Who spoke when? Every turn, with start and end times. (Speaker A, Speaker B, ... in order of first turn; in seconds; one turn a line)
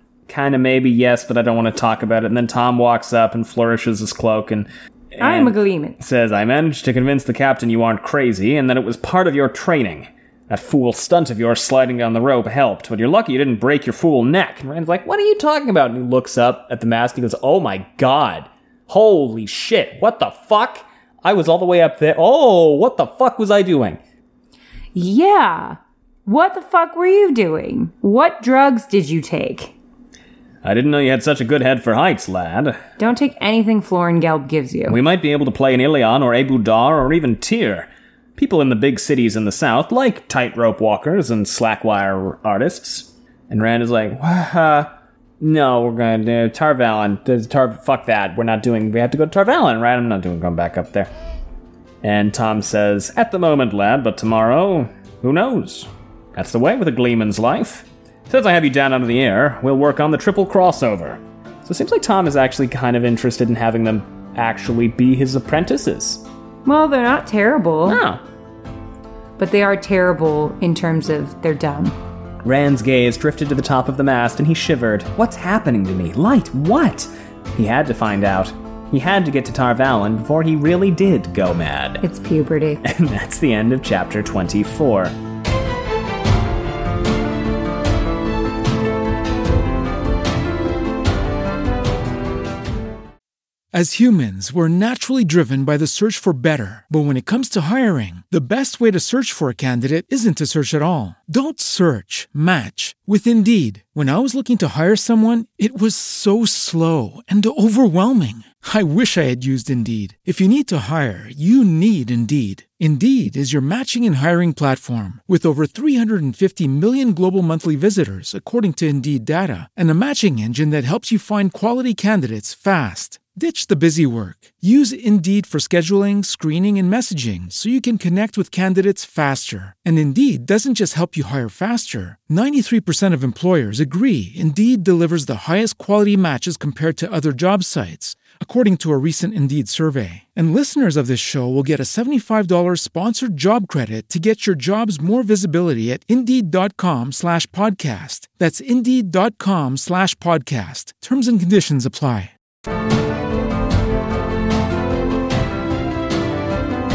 Speaker A: 0.3-24.0
Speaker B: 5.2-6.0
Speaker B: 24.9-29.7
Speaker A: 30.6-32.8
Speaker B: 33.0-35.0
Speaker A: 34.9-51.1
Speaker A: 52.0-66.2
Speaker B: 66.7-68.0
Speaker A: 67.9-68.2
Speaker B: 69.4-72.0
Speaker A: 72.4-82.0
Speaker B: 82.0-82.8
Speaker A: 82.8-85.1
Speaker C: 93.7-152.3